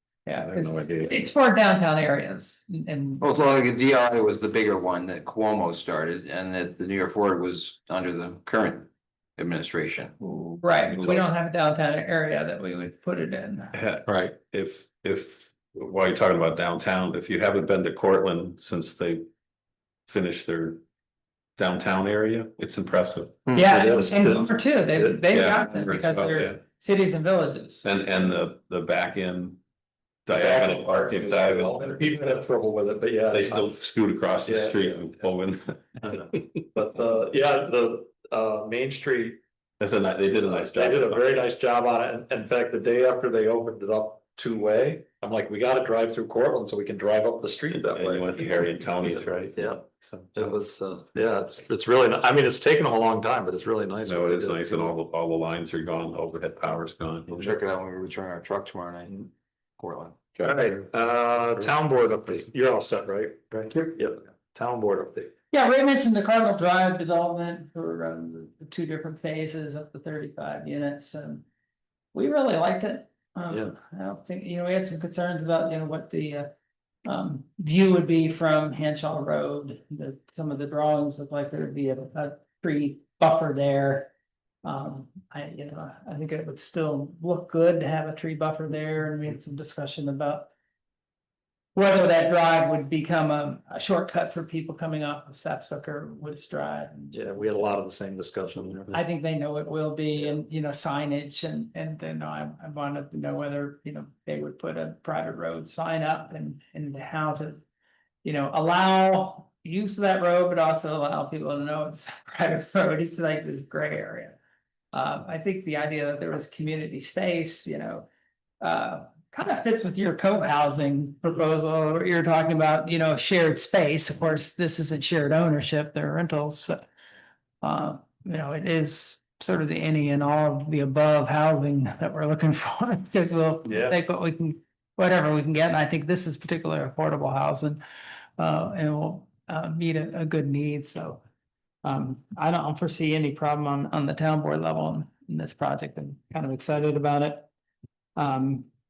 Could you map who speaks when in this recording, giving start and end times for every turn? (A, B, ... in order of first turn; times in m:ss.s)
0:00.3-0:03.4 A
0:00.4-0:01.3 B
0:03.2-0:10.2 C
0:10.2-0:13.8 A
0:11.0-0:11.2 B
0:13.7-0:19.3 B
0:14.1-0:14.3 D
0:20.1-0:20.8 B
0:21.6-0:23.4 B
0:23.5-0:27.9 A
0:23.7-0:25.2 D
0:25.3-0:26.6 B
0:27.8-0:29.6 B
0:30.3-0:32.0 B
0:30.3-0:33.7 D
0:33.3-0:36.6 B
0:34.4-0:34.9 D
0:36.7-0:39.4 D
0:39.8-0:41.2 B
0:40.3-0:55.0 D
0:47.7-0:50.4 B
0:54.0-0:57.4 B
0:57.3-1:00.3 C
1:00.4-1:05.3 D
1:05.5-1:11.4 A
1:12.1-1:16.5 A
1:17.0-1:24.1 A
1:24.6-1:30.5 A
1:31.8-1:37.2 A
1:37.1-1:39.0 D
1:38.9-1:47.6 A
1:48.2-1:54.4 A
1:54.9-1:58.1 A
1:58.6-2:06.9 A
2:07.6-2:17.8 A
2:13.7-2:14.0 D
2:18.4-2:21.2 A
2:21.8-2:27.5 A
2:28.2-2:28.7 A